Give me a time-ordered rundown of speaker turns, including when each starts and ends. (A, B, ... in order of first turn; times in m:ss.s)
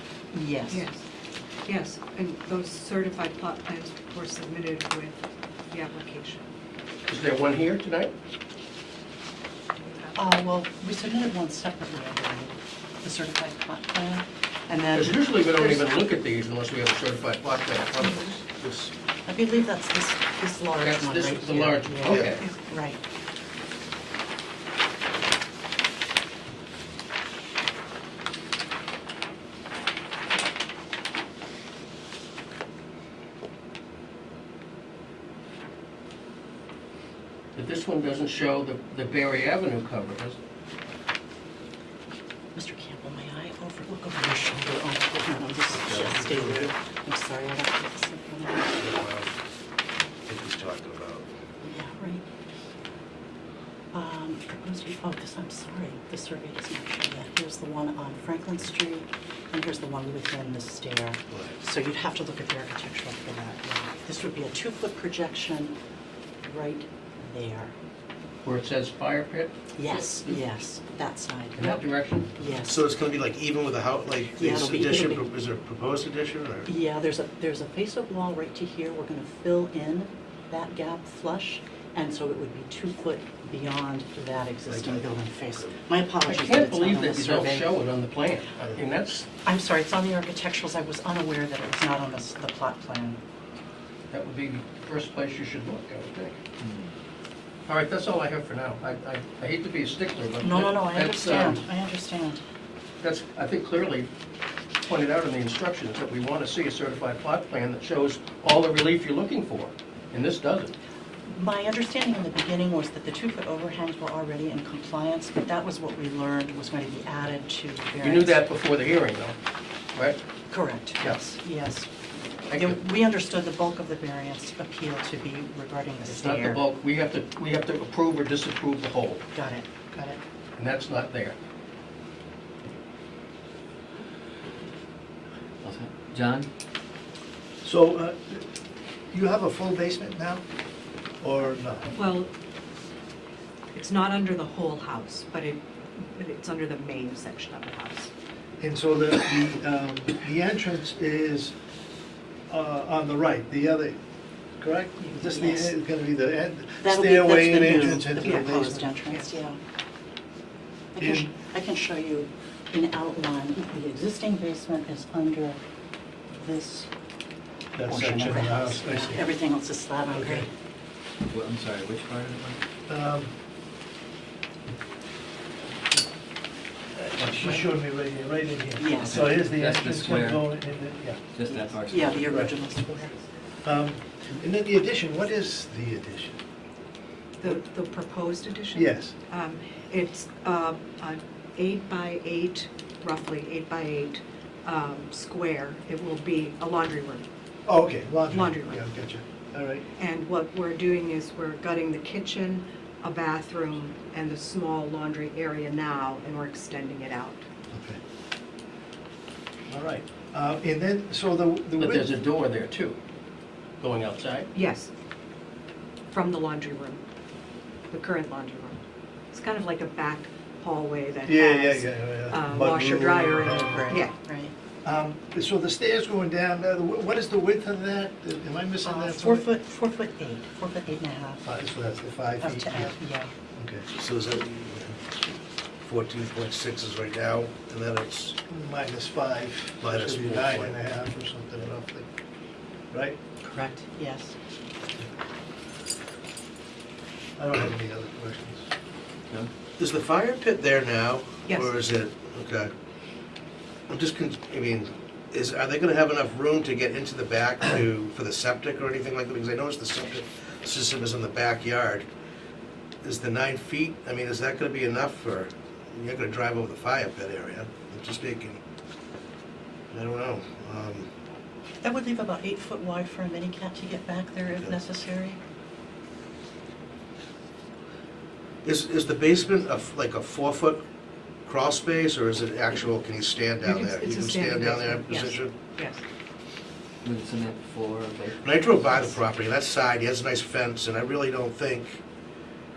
0:00.3-0:00.9 A
0:00.7-0:01.0 B
0:01.7-0:06.5 B
0:07.0-0:08.1 C
0:09.8-0:10.2 B
0:10.1-0:15.9 A
0:14.9-0:18.9 C
0:19.2-0:23.0 A
0:20.8-0:22.4 C
0:22.0-0:22.4 D
0:37.6-0:40.4 C
0:42.6-0:48.8 A
0:45.8-0:46.7 D
0:48.8-0:49.4 D
0:50.3-0:51.3 D
0:51.6-0:52.3 A
0:53.9-1:05.8 A
1:01.3-1:01.6 D
1:06.4-1:07.7 A
1:08.4-1:10.5 C
1:09.7-1:11.8 A
1:11.6-1:12.3 C
1:12.3-1:12.8 A
1:12.7-1:16.7 D
1:14.4-1:15.2 A
1:16.7-1:27.7 A
1:24.7-1:25.8 D
1:26.2-1:29.3 C
1:29.4-1:33.2 A
1:34.1-1:36.4 C
1:37.7-1:41.6 C
1:40.4-1:42.4 A
1:43.0-1:44.1 C
1:44.8-1:50.7 C
1:51.3-1:58.4 A
1:58.0-1:59.4 C
2:00.5-2:01.9 A
2:02.5-2:06.7 A
2:02.5-2:02.8 C
2:06.0-2:09.2 C
2:09.3-2:10.2 A
2:10.6-2:11.4 C
2:15.6-2:16.5 E
2:17.6-2:18.4 F
2:19.1-2:20.4 F
2:21.2-2:21.9 F
2:21.9-2:22.3 B
2:23.7-2:28.1 B
2:28.6-2:31.5 F
2:32.5-2:34.0 F
2:34.6-2:38.9 F
2:35.0-2:35.8 A
2:36.8-2:39.6 A
2:38.2-2:39.4 B
2:40.9-2:45.6 A
2:41.0-2:41.3 F
2:46.3-2:46.9 A
2:47.8-2:49.2 F
2:47.8-2:50.5 A
2:50.1-2:50.4 F
2:51.3-2:52.6 E
2:52.9-2:53.3 F
2:56.9-3:01.3 F
2:58.8-2:59.3 A
2:58.9-3:00.4 E
3:01.3-3:02.4 E
3:01.4-3:03.1 A
3:02.2-3:02.5 F
3:03.6-3:06.4 F
3:07.4-3:17.3 B
3:08.7-3:09.1 F
3:17.7-3:19.8 F
3:18.3-3:18.8 B
3:19.9-3:27.4 B
3:27.7-3:28.0 F
3:29.7-3:32.1 F
3:31.8-3:33.0 C
3:33.8-3:34.5 C
3:34.5-3:34.9 B
3:36.1-3:37.0 B
3:37.9-3:38.8 B
3:39.3-3:44.1 B
3:41.3-3:44.0 F
3:43.7-3:44.5 A
3:44.8-3:49.5 F
3:48.8-3:51.4 A
3:51.4-3:53.0 F
3:52.4-3:53.3 A
3:53.6-3:53.9 F
3:53.9-3:55.0 D
3:55.8-3:58.4 D
3:58.5-4:02.1 F
3:59.8-4:00.8 D
4:02.9-4:03.2 F
4:03.4-4:04.3 A
4:07.4-4:08.7 F
4:09.8-4:12.7 D
4:11.5-4:11.8 B
4:13.9-4:22.1 D
4:23.0-4:28.6 D
4:29.9-4:31.1 D
4:31.8-4:35.4 A
4:38.6-4:40.8 D
4:41.4-4:45.7 D
4:43.6-4:46.0 B
4:47.0-4:49.0 E
4:48.4-4:52.0 D